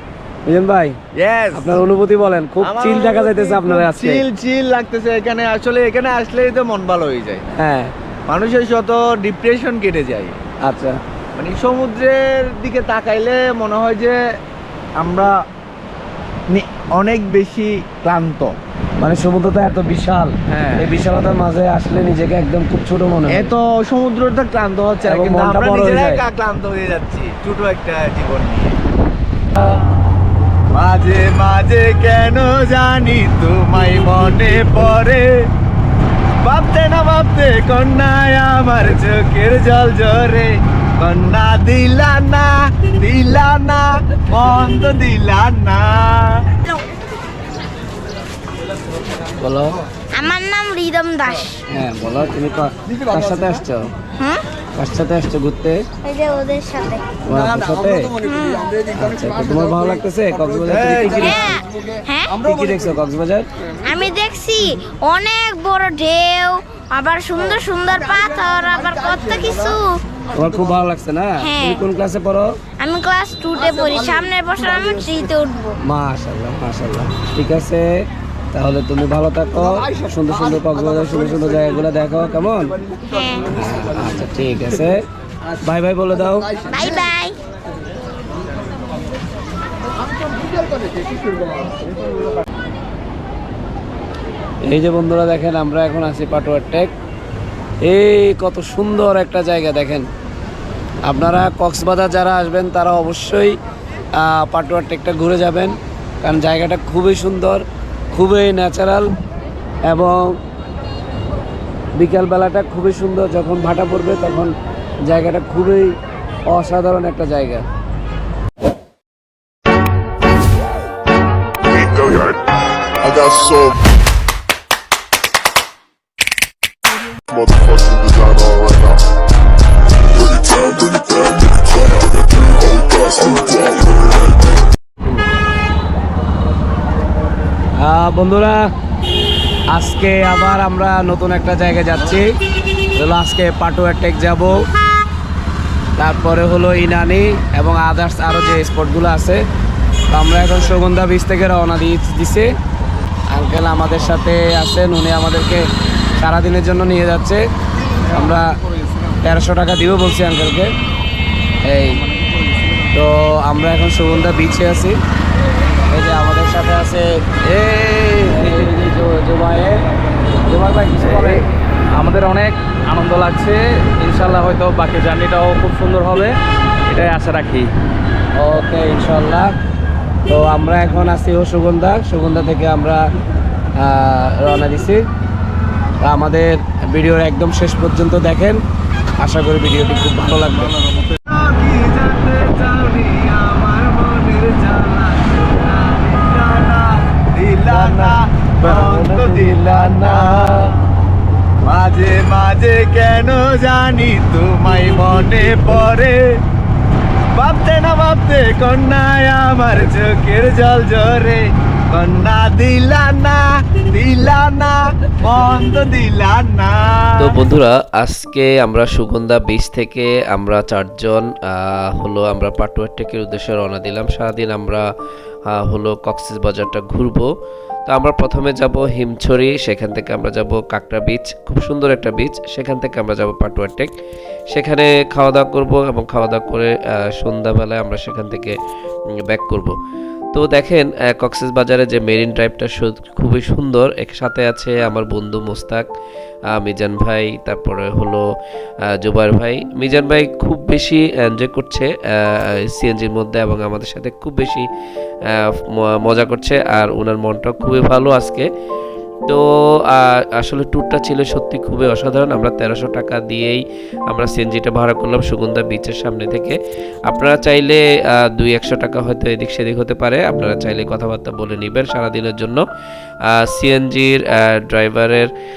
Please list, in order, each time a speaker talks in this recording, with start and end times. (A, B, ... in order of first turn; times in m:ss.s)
0:00.5-0:01.0 A
0:01.2-0:01.8 B
0:01.5-0:04.2 A
0:02.6-0:07.4 B
0:07.5-0:07.9 A
0:08.3-0:10.4 B
0:10.6-0:11.0 A
0:11.4-0:14.2 B
0:15.0-0:15.3 B
0:16.5-0:18.6 B
0:19.0-0:23.5 A
0:20.5-0:20.8 C
0:23.3-0:28.8 B
0:25.0-0:26.2 A
0:30.7-0:35.3 B
0:36.4-0:46.5 B
0:49.4-0:49.8 A
0:50.2-0:51.6 D
0:51.7-0:53.9 A
0:54.2-0:54.4 D
0:54.8-0:55.8 A
0:56.0-0:57.0 D
0:57.3-0:58.1 A
0:58.2-0:58.7 D
0:59.0-1:01.4 A
1:00.7-1:01.4 B
1:01.2-1:02.3 D
1:02.4-1:03.5 A
1:03.8-1:10.0 D
1:10.4-1:12.6 A
1:11.4-1:11.8 D
1:12.8-1:15.8 D
1:15.8-1:18.0 A
1:18.5-1:22.8 A
1:23.1-1:23.5 D
1:23.5-1:25.0 A
1:25.6-1:26.5 A
1:26.7-1:27.4 D
1:34.7-1:36.9 A
1:37.8-1:40.1 A
1:41.1-1:43.6 A
1:44.2-1:49.1 A
1:49.9-1:50.4 A
1:52.0-1:54.5 A
1:55.1-1:56.0 A
1:56.5-1:57.6 A
2:01.7-2:02.4 E
2:03.0-2:03.8 E
2:07.3-2:09.0 E
2:10.1-2:14.0 E
2:17.8-2:18.7 A
2:19.7-2:22.3 A
2:23.0-2:24.6 A
2:26.0-2:29.4 A
2:30.1-2:32.6 A
2:33.3-2:35.6 A
2:36.2-2:37.4 A
2:38.1-2:38.5 A
2:39.2-2:40.7 A
2:41.6-2:42.0 A
2:42.9-2:45.0 A
2:45.9-2:49.8 A
2:50.5-2:51.4 A
2:51.0-2:51.4 C
2:52.0-2:56.3 C
2:56.9-2:57.7 C
2:58.4-2:59.6 A
3:00.3-3:03.0 A
3:03.8-3:05.0 A
3:06.0-3:08.6 A
3:09.2-3:10.7 A
3:11.3-3:20.8 B
3:17.7-3:20.7 A
3:21.7-3:26.2 B
3:27.3-3:37.4 B
3:37.2-3:44.9 F
3:45.5-3:47.3 F
3:47.9-3:53.9 F
3:54.5-3:58.6 F
3:59.1-3:59.8 F
4:00.3-4:05.9 F
4:06.5-4:08.2 F
4:08.9-4:14.7 F
4:15.3-4:18.5 F
4:19.3-4:26.6 F
4:27.1-4:32.6 F
4:33.3-4:35.3 F